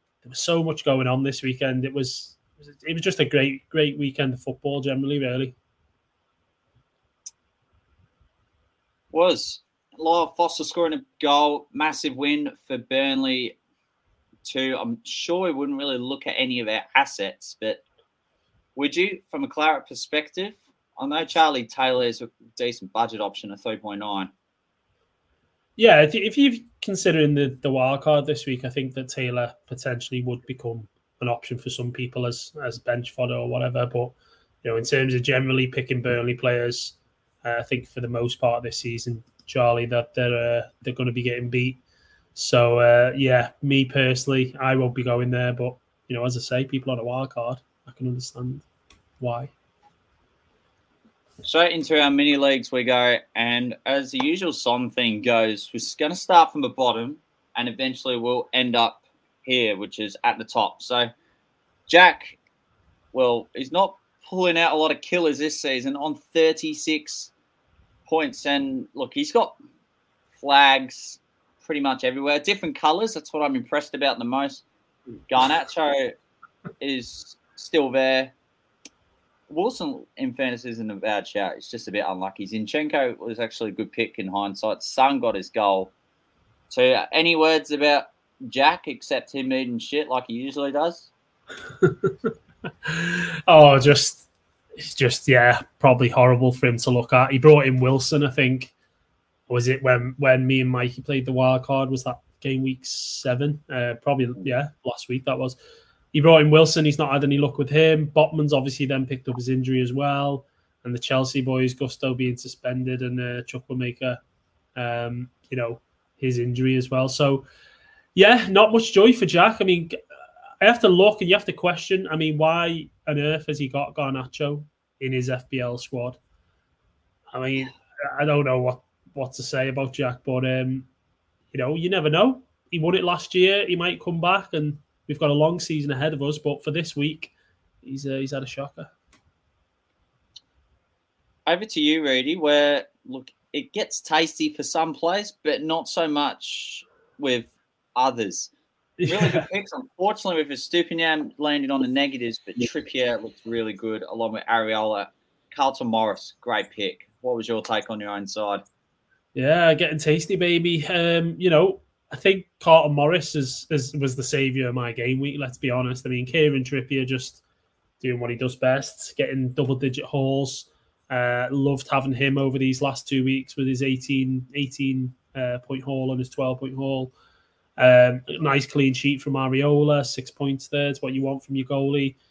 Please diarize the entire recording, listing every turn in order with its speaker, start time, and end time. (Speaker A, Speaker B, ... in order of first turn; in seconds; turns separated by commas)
Speaker A: 0.2-5.5, Speaker B: 9.1-13.6, Speaker B: 14.4-17.8, Speaker B: 18.8-24.3, Speaker A: 25.8-41.8, Speaker A: 42.3-48.6, Speaker A: 49.2-49.5, Speaker B: 51.4-61.1, Speaker B: 61.9-62.4, Speaker B: 63.1-67.3, Speaker B: 68.1-69.5, Speaker B: 70.4-74.6, Speaker B: 75.3-76.2, Speaker B: 76.8-78.3, Speaker B: 79.5-85.9, Speaker B: 86.7-91.1, Speaker A: 91.8-92.3, Speaker A: 92.8-94.3, Speaker A: 94.8-98.7, Speaker A: 99.5-105.6, Speaker A: 106.1-114.2, Speaker A: 114.8-117.4, Speaker A: 118.1-120.0, Speaker A: 120.6-126.2, Speaker A: 127.3-130.9, Speaker A: 131.5-137.3, Speaker A: 137.8-138.9, Speaker B: 141.5-148.5, Speaker A: 149.0-149.4, Speaker B: 149.0-158.6, Speaker A: 159.3-167.4, Speaker A: 168.0-177.1, Speaker A: 177.8-182.2